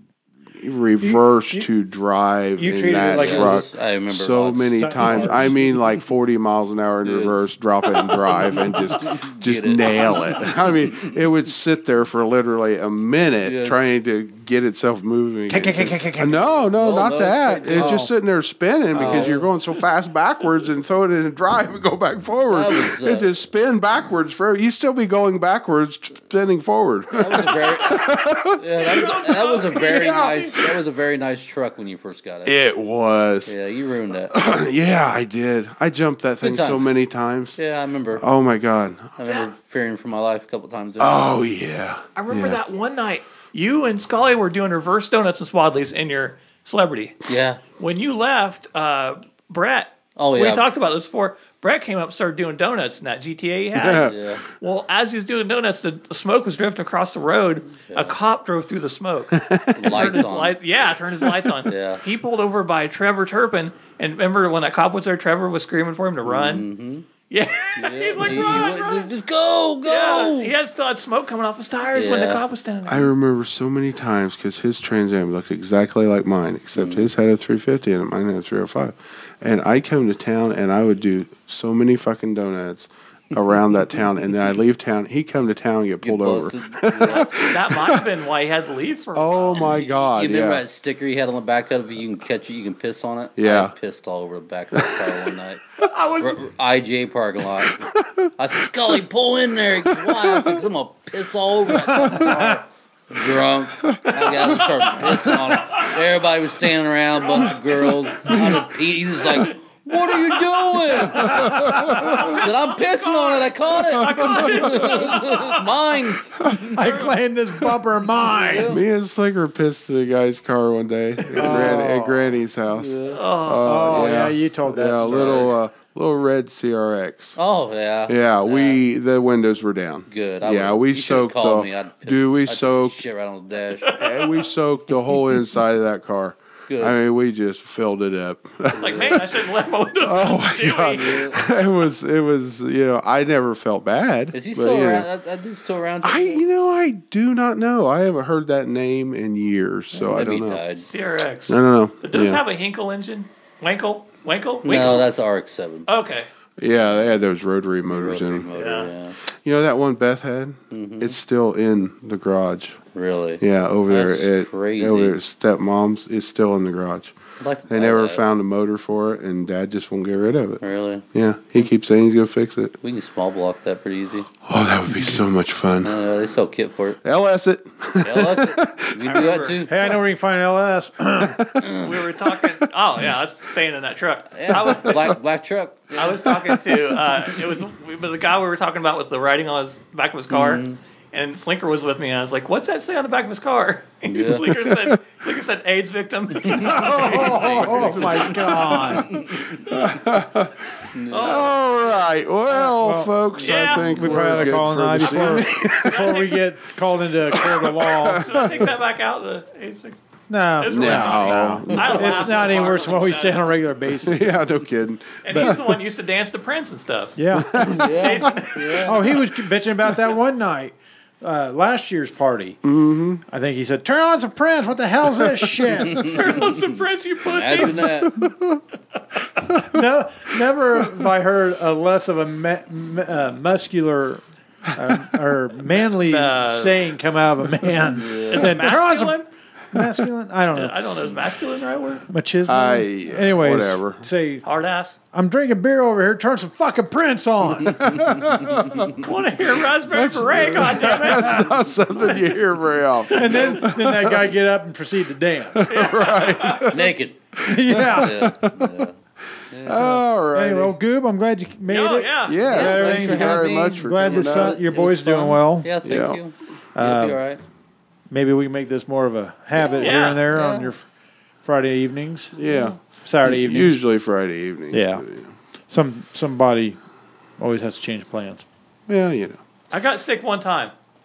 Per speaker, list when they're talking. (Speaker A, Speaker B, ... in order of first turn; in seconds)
Speaker A: 0.5-29.2, 29.7-30.7, 32.4-33.5, 34.3-37.6, 38.2-39.2, 41.0-42.6, 53.7-54.1, 59.3-60.3, 61.2-61.5, 72.9-88.1, 89.1-90.7, 93.4-93.7, 94.7-95.3, 97.6-99.0, 99.9-100.7, 101.8-102.5, 105.0-105.8, 108.1-109.5, 110.9-112.4, 114.0-115.4, 118.7-127.3, 128.1-133.0, 134.0-139.3, 140.0-145.1, 146.0-150.6, 151.5-152.4, 156.6-158.5, 159.3-162.8, 163.4-167.1, 167.7-172.8, 174.4-175.9, 177.0-179.2, 181.2-181.7, 184.5-185.1, 194.5-195.0, 196.9-197.9, 199.7-200.5, 201.2-206.2, 207.3-208.7, 210.7-212.6, 214.0-215.8, 217.3-218.2, 222.6-223.2, 227.8-228.6, 242.4-244.1, 247.8-248.9, 249.9-254.3, 255.5-258.9, 259.6-260.8, 262.2-264.6, 265.8-266.2, 272.3-275.3, 278.9-279.4
Speaker B: 1.0-1.7, 2.5-3.7, 4.8-5.6, 15.5-16.6, 17.7-18.1, 116.7-118.7, 121.3-122.4, 123.6-125.6, 179.7-181.3, 196.6-199.1, 202.5-203.1, 203.8-208.2, 210.3-214.3, 217.2-217.8, 218.8-222.6, 223.3-226.2, 229.7-239.2, 239.7-240.8, 242.1-244.4, 245.1-247.8, 253.1-255.7, 257.4-258.2, 259.8-265.7, 266.8-267.2, 268.1-270.8, 271.4-272.3, 273.0-273.8, 274.7-275.0, 275.7-276.8, 277.4-278.4
Speaker C: 3.0-5.8, 7.0-11.1, 13.4-13.9, 16.7-18.1, 18.9-19.5, 22.5-23.3, 27.1-32.5, 33.5-34.3, 36.4-37.0, 37.5-38.2, 39.2-41.4, 47.3-47.6, 50.1-50.6, 53.8-54.4, 57.8-58.1, 59.8-60.5, 61.7-62.0, 66.2-67.1, 67.8-70.5, 71.9-72.4, 76.8-77.1, 86.0-87.5, 89.5-95.6, 96.2-97.8, 98.4-117.0, 118.3-118.8, 122.7-123.2, 125.0-125.6, 127.3-128.8, 130.1-134.0, 136.7-136.9, 138.7-139.3, 140.8-141.4, 144.3-146.4, 149.9-150.9, 154.6-155.9, 157.9-159.2, 160.7-161.2, 162.9-165.2, 167.4-168.2, 170.6-171.0, 172.8-174.3, 175.8-177.0, 178.0-179.7, 181.6-181.9, 184.3-186.4, 190.3-190.8, 194.1-194.5, 196.4-199.7, 200.9-201.5, 204.1-204.5, 211.7-212.5, 217.7-219.0, 225.9-226.3, 227.2-228.1, 237.9-238.6, 256.7-259.0, 259.5-259.9, 262.5-267.4, 269.6-270.7
Speaker D: 28.8-30.6, 42.1-47.2, 47.8-66.7, 67.3-69.1, 69.8-73.1, 87.1-89.7, 95.8-96.4, 104.1-105.9, 107.2-108.5, 111.8-115.7, 116.8-117.1, 123.1-123.8, 133.8-134.1, 138.8-141.3, 150.8-155.1, 155.9-156.3, 158.5-158.9, 179.1-179.7, 181.8-185.1, 186.0-199.8, 201.1-202.0, 203.4-204.1, 205.0-206.4, 208.1-210.0, 210.6-213.6, 215.2-217.1, 217.7-219.0, 225.9-228.1, 235.7-236.9, 238.3-239.3, 240.5-242.0, 244.4-245.0, 248.9-251.6, 253.2-253.5, 255.7-256.9, 261.7-262.4, 269.8-270.3, 279.7-280.7